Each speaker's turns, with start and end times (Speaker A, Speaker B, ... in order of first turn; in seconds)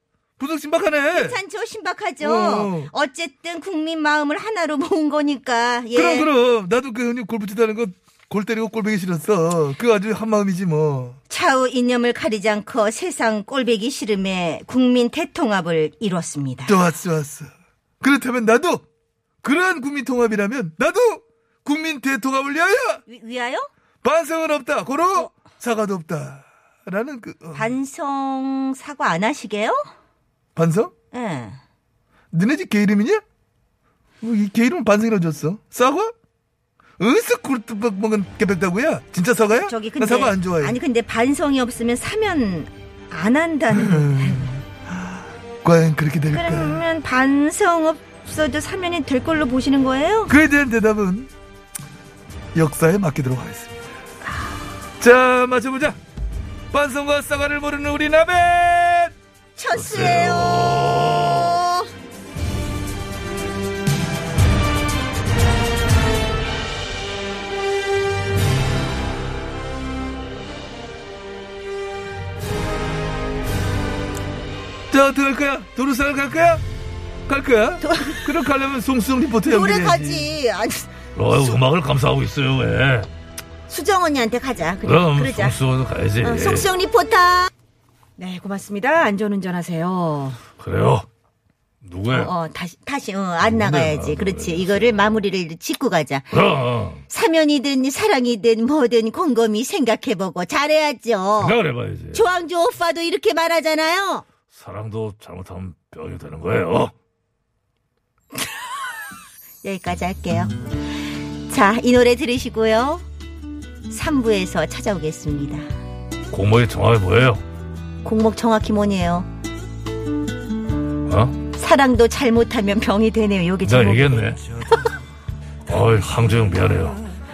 Speaker A: 0.4-1.4, 2.2-2.9, 5.9-11.2, 16.7-17.5, 18.0-18.8, 19.4-23.0, 24.0-27.7, 30.6-30.9, 32.3-33.2, 34.2-36.1, 37.0-40.8, 43.7-45.1, 45.6-46.8, 50.3-51.3, 52.5-53.9, 55.0-56.0, 56.7-59.1, 74.9-76.6, 77.3-80.3
Speaker B: 1.1-6.3, 11.3-16.8, 23.1-23.7, 27.5-29.8, 31.1-31.6, 39.5-44.5, 46.3-50.4, 59.5-61.9, 77.8-78.3, 79.4-81.6, 83.7-85.6, 86.2-87.5, 88.2-90.4, 92.1-96.3, 97.1-101.6, 102.1-104.2, 109.6-110.6, 111.4-113.0, 113.9-115.7, 118.0-119.3, 121.5-124.8
Speaker C: 59.7-61.6, 81.1-83.1, 84.8-86.7, 90.6-91.0, 91.8-92.3, 93.4-95.2, 96.3-97.0, 101.4-102.2, 104.5-106.9, 116.3-117.4, 121.1-121.4, 123.6-124.4, 125.7-127.0